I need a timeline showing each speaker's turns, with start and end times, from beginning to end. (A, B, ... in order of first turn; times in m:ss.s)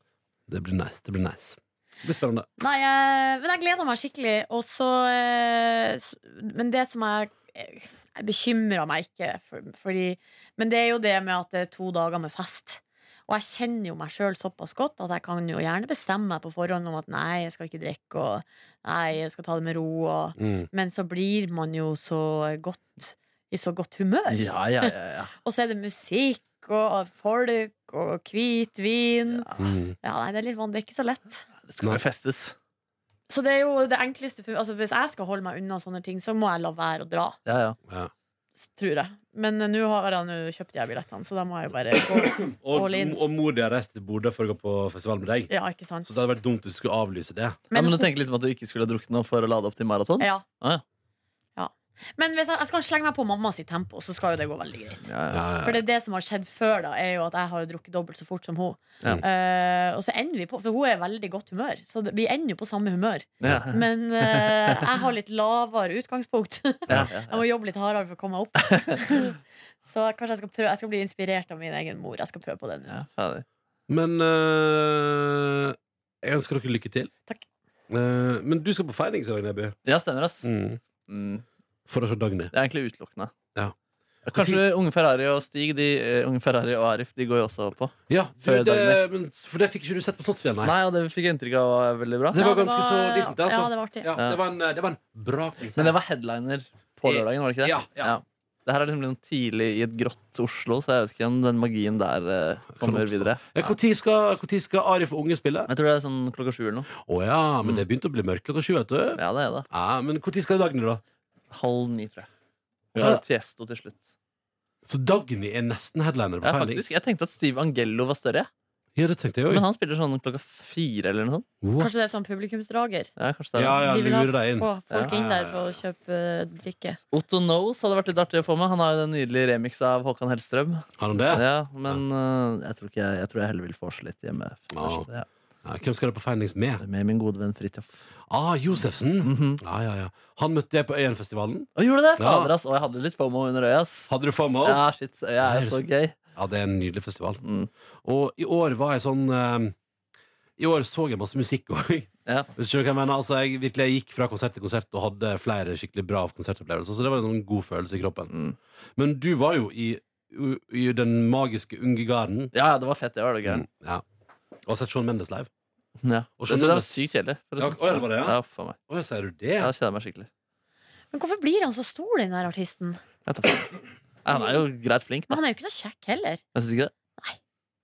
0:00.5-0:02.4 A
0:02.6-0:29.5 B
0:20.4-0:20.7 A
0:24.3-0:25.3 C
0:29.4-0:29.7 C
0:29.6-0:30.0 A
0:30.0-0:31.4 B
0:31.6-0:32.6 C
0:33.3-0:37.4 B
0:37.4-0:37.8 C
0:38.6-0:43.2 B
0:42.1-0:45.5 A
0:45.5-0:46.1 B
0:46.0-0:47.6 A
0:47.7-0:48.1 B
0:47.7-0:50.8 C
0:50.2-0:50.4 B
0:51.6-0:55.1 B
0:55.1-0:55.4 C
0:55.3-0:55.8 A
0:55.6-1:13.0 B
1:03.4-1:04.8 C
1:06.9-1:07.4 C
1:08.7-1:09.0 C
1:12.9-1:13.4 C
1:13.9-1:17.1 A
1:17.9-1:19.8 A
1:19.9-1:20.5 C
1:20.4-1:20.8 A
1:21.1-1:21.4 C
1:21.9-1:22.5 A
1:22.5-1:23.3 C
1:24.2-1:29.0 C
1:24.3-1:24.6 A
1:28.1-1:30.8 A
1:30.6-1:32.4 C
1:32.3-1:36.0 A
1:32.4-1:34.1 B
1:35.8-1:43.5 C
1:37.0-1:38.2 A
1:42.8-1:45.7 A
1:45.7-1:46.9 C
1:47.0-1:51.0 A
1:49.2-1:49.6 C
1:51.5-1:52.3 C
1:52.9-1:53.2 A
1:52.9-1:54.0 C
1:54.8-1:57.0 A
1:56.4-1:58.5 C
1:59.0-1:59.6 A
1:59.5-2:01.4 C
2:01.6-2:01.9 A
2:01.8-2:03.1 B
2:03.2-2:03.8 C
2:03.5-2:05.8 A
2:03.8-2:07.0 B
2:07.1-2:15.2 C
2:11.0-2:12.0 A
2:14.7-2:15.1 A
2:15.6-2:16.8 A
2:16.8-2:18.0 C
2:18.3-2:22.5 A
2:19.2-2:19.6 C
2:21.8-2:24.1 C
2:24.1-2:24.8 A
2:24.6-2:26.1 C
2:25.4-2:25.8 A
2:26.4-2:27.4 A
2:27.4-2:27.7 C
2:28.0-2:29.8 A
2:30.6-2:38.3 A
2:38.3-2:38.6 C
2:39.0-2:42.5 A
2:42.5-2:43.6 C
2:43.4-2:44.0 A
2:44.6-2:45.5 A
2:46.0-2:48.8 C
2:46.4-2:46.9 A
2:47.6-2:48.4 A
2:48.9-2:49.7 A
2:49.6-2:50.3 C
2:51.1-2:53.0 B
2:53.3-2:55.4 C
2:54.3-2:54.6 B
2:55.3-2:56.4 B
2:56.5-2:56.9 C